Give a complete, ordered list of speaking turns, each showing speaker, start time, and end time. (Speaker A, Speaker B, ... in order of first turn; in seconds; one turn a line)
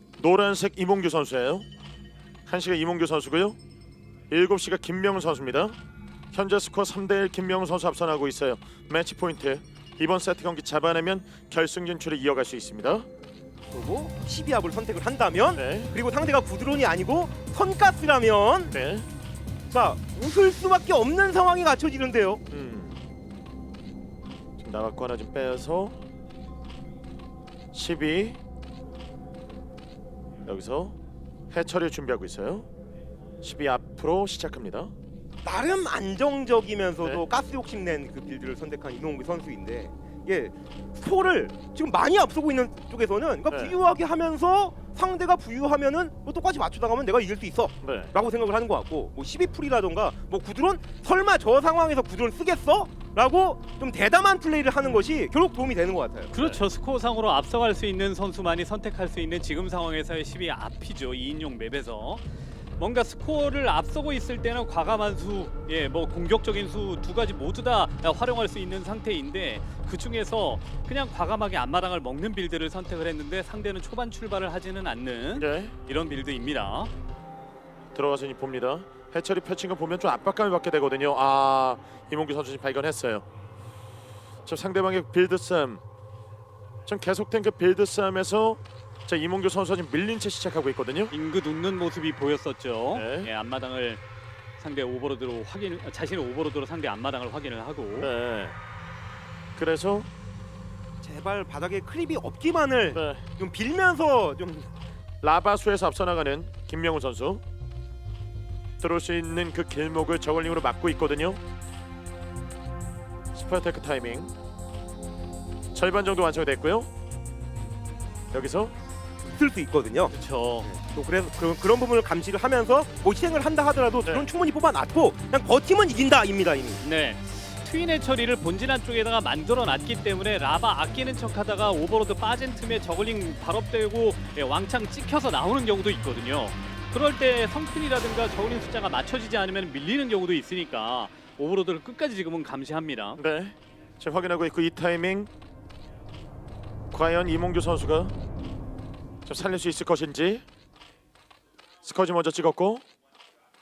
Speaker A: 0.2-1.6
Speaker A: 2.5-3.6
Speaker A: 4.3-5.8
Speaker A: 6.3-13.1
Speaker B: 13.7-18.7
Speaker A: 15.5-15.9
Speaker A: 18.7-19.0
Speaker B: 19.7-22.4
Speaker A: 22.5-22.9
Speaker A: 24.6-26.0
Speaker A: 27.7-28.4
Speaker A: 30.4-30.9
Speaker A: 31.5-32.7
Speaker A: 33.4-34.9
Speaker B: 35.4-56.6
Speaker A: 47.8-48.1
Speaker C: 56.3-62.2
Speaker C: 62.8-76.9
Speaker A: 75.3-75.8
Speaker A: 77.9-83.2
Speaker A: 84.5-85.8
Speaker A: 86.9-91.1
Speaker C: 91.1-94.0
Speaker A: 92.9-93.3
Speaker C: 94.6-98.1
Speaker A: 98.0-98.5
Speaker A: 99.5-100.1
Speaker B: 101.0-104.7
Speaker A: 102.9-103.2
Speaker A: 105.2-107.4
Speaker A: 108.8-111.4
Speaker A: 113.3-114.3
Speaker A: 115.7-116.9
Speaker A: 118.3-118.7
Speaker B: 119.2-126.8
Speaker C: 120.1-120.7
Speaker C: 126.8-143.2
Speaker A: 143.2-145.3
Speaker A: 146.9-148.1
Speaker A: 149.2-150.4
Speaker A: 151.8-152.8